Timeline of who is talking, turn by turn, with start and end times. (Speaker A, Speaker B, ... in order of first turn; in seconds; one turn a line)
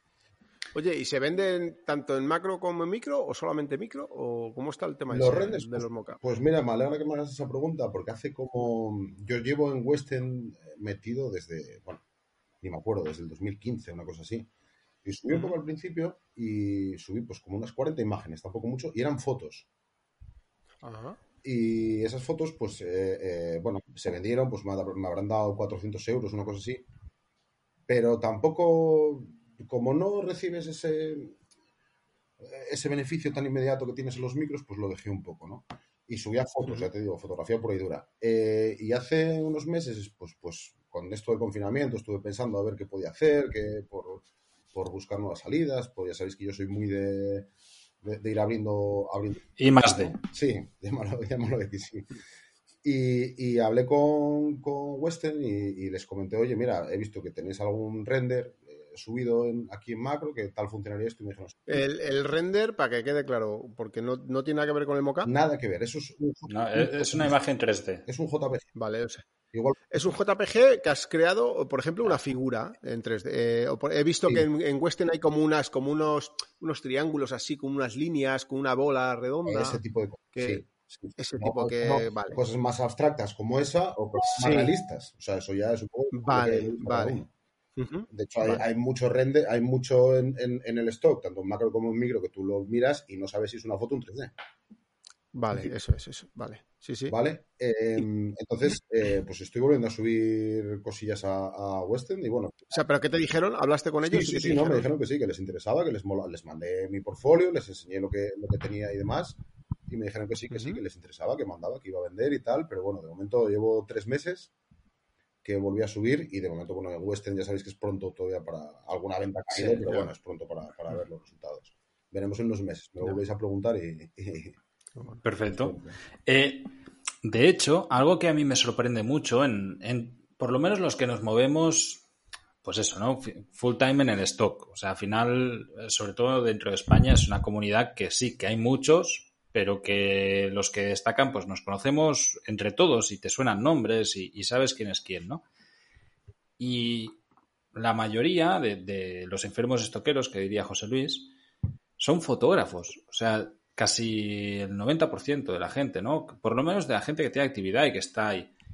Speaker A: 0.7-6.2
Speaker B: 5.1-12.0
Speaker B: 12.6-14.5
Speaker B: 15.0-19.7
Speaker A: 20.8-21.2
Speaker B: 21.4-26.8
Speaker B: 27.9-31.4
Speaker B: 32.4-47.5
Speaker B: 48.0-52.1
Speaker C: 49.6-50.2
Speaker B: 52.8-61.9
Speaker A: 61.7-65.3
Speaker B: 65.2-67.4
Speaker C: 66.5-68.0
Speaker B: 68.0-68.7
Speaker A: 68.8-69.2
Speaker B: 69.5-69.9
Speaker A: 69.9-79.8
Speaker B: 79.5-87.3
Speaker A: 80.3-80.6
Speaker A: 81.2-82.4
Speaker A: 84.3-84.7
Speaker A: 86.1-87.2
Speaker A: 87.8-88.6
Speaker B: 88.1-94.3
Speaker A: 95.3-97.2
Speaker B: 97.1-102.8
Speaker A: 102.7-104.9
Speaker B: 104.0-114.5
Speaker A: 110.5-110.8
Speaker B: 115.4-124.6
Speaker C: 119.5-119.8
Speaker A: 125.0-125.2
Speaker C: 125.2-125.7
Speaker B: 125.5-126.0
Speaker C: 126.2-126.7
Speaker C: 127.2-132.0
Speaker C: 132.6-145.4
Speaker C: 146.6-147.2
Speaker C: 147.7-151.3
Speaker C: 152.0-158.5